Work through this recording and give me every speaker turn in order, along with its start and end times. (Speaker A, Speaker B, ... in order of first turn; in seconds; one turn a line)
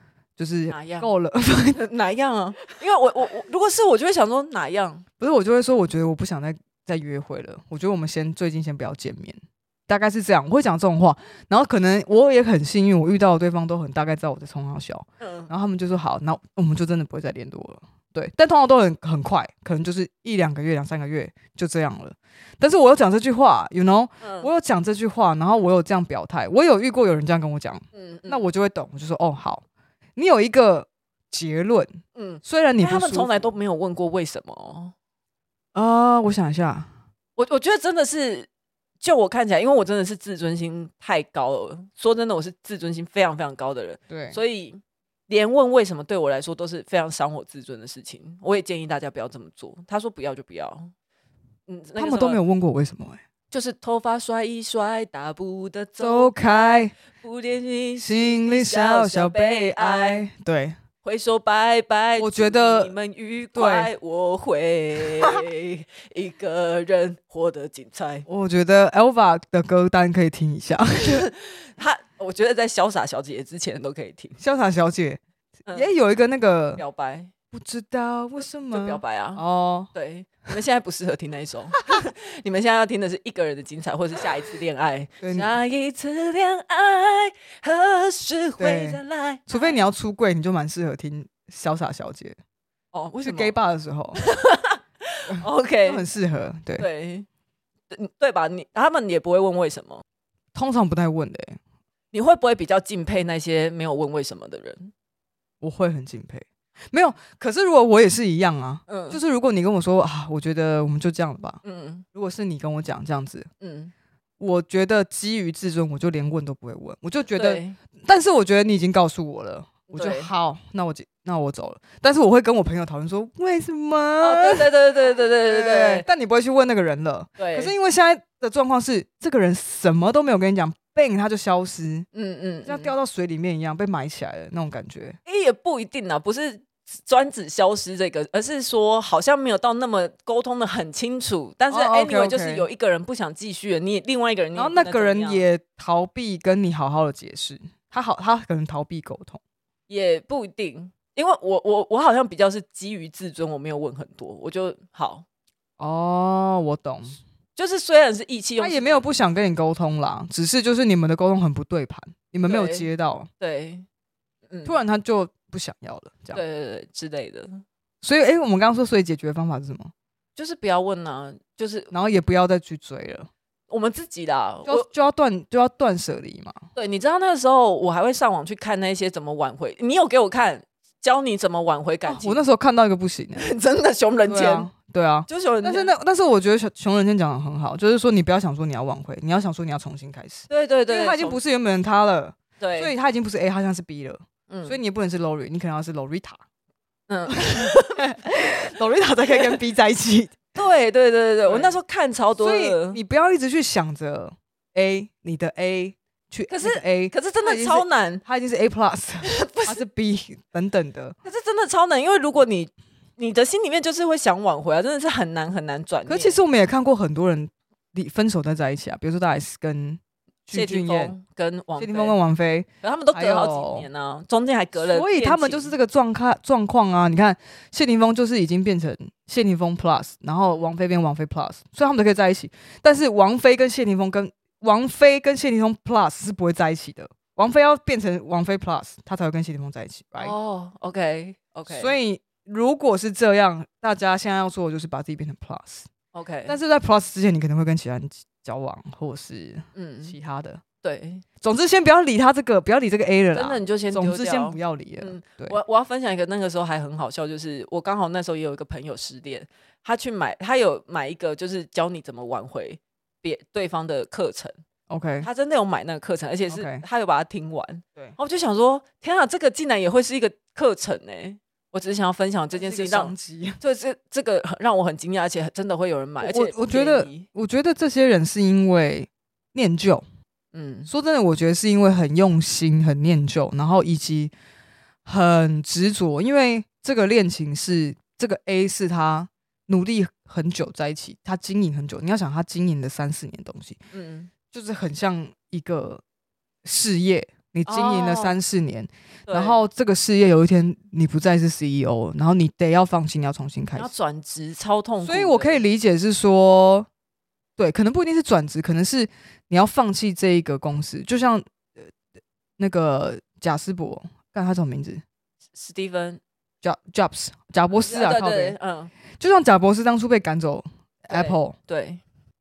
Speaker A: 0.4-1.8
Speaker B: 0.7-1.1
Speaker B: 1.7-5.0
Speaker A: 5.2-29.6
Speaker B: 15.2-15.5
Speaker B: 24.2-24.5
Speaker B: 27.9-28.4
Speaker A: 30.1-33.5
Speaker B: 32.1-34.9
Speaker A: 35.7-36.9
Speaker B: 37.4-38.5
Speaker B: 39.0-50.9
Speaker A: 44.1-44.4
Speaker B: 51.7-52.4
Speaker A: 52.0-53.2
Speaker B: 53.5-60.3
Speaker A: 56.0-56.9
Speaker A: 58.0-60.8
Speaker B: 61.0-68.2
Speaker A: 62.2-62.9
Speaker A: 63.5-63.9
Speaker A: 68.3-71.3
Speaker B: 71.1-74.4
Speaker A: 74.4-76.8
Speaker B: 75.7-75.9
Speaker B: 76.8-77.3
Speaker A: 77.5-79.9
Speaker B: 78.5-89.8
Speaker A: 85.2-85.6
Speaker A: 88.6-92.4
Speaker B: 92.9-93.6
Speaker A: 93.2-94.2
Speaker B: 94.1-96.0
Speaker A: 95.3-96.9
Speaker B: 96.8-97.3
Speaker B: 97.9-100.0
Speaker A: 100.5-101.6
Speaker B: 102.1-104.9
Speaker A: 105.6-111.6
Speaker B: 108.9-109.2
Speaker B: 111.6-112.0
Speaker A: 112.1-113.5
Speaker B: 113.6-113.9
Speaker A: 114.4-132.1
Speaker B: 117.3-117.8
Speaker B: 119.9-120.3
Speaker B: 124.2-126.0
Speaker B: 127.4-127.7
Speaker B: 132.1-132.9
Speaker A: 132.6-135.2
Speaker B: 135.2-145.4
Speaker A: 141.7-142.7
Speaker A: 144.5-149.4
Speaker B: 149.9-155.2
Speaker A: 155.8-157.2
Speaker B: 157.5-159.1
Speaker A: 158.6-163.3
Speaker B: 162.4-163.8
Speaker B: 164.5-164.8
Speaker A: 164.6-166.4
Speaker B: 166.3-167.6
Speaker A: 168.0-169.9
Speaker B: 170.3-171.9
Speaker A: 171.9-173.3
Speaker B: 173.7-174.9
Speaker A: 174.6-176.6
Speaker B: 176.7-182.4
Speaker A: 182.1-183.5
Speaker B: 183.3-184.7
Speaker A: 184.2-196.4
Speaker B: 185.3-185.9
Speaker B: 190.5-191.4
Speaker B: 192.6-192.9
Speaker B: 194.5-194.8
Speaker B: 197.1-198.0
Speaker A: 197.3-200.5
Speaker B: 199.3-199.6
Speaker B: 200.5-203.0
Speaker A: 201.4-201.8
Speaker A: 202.3-211.2
Speaker B: 206.5-208.2
Speaker B: 209.2-209.8
Speaker B: 211.2-216.4
Speaker A: 216.1-221.1
Speaker B: 220.5-222.2
Speaker A: 221.8-223.9
Speaker B: 222.8-225.8
Speaker A: 224.8-240.3
Speaker B: 240.2-242.0
Speaker A: 241.7-245.9
Speaker B: 246.1-246.6
Speaker A: 246.4-250.6
Speaker B: 249.7-250.2
Speaker B: 250.8-251.2
Speaker A: 251.4-255.6
Speaker B: 253.3-264.6
Speaker A: 264.9-265.3
Speaker B: 265.2-277.2
Speaker A: 266.5-266.8
Speaker A: 272.5-273.6
Speaker A: 276.2-280.0
Speaker B: 280.5-280.9
Speaker A: 280.9-284.3
Speaker A: 285.1-293.8
Speaker B: 293.9-294.3
Speaker A: 294.5-296.0
Speaker A: 296.6-303.9
Speaker B: 297.6-298.4
Speaker B: 299.3-299.6
Speaker B: 303.8-305.6
Speaker A: 305.0-306.9
Speaker A: 307.6-311.9
Speaker A: 312.6-315.0
Speaker B: 315.5-316.2
Speaker A: 316.6-318.6
Speaker B: 317.7-318.9
Speaker A: 319.2-321.6
Speaker B: 321.1-322.0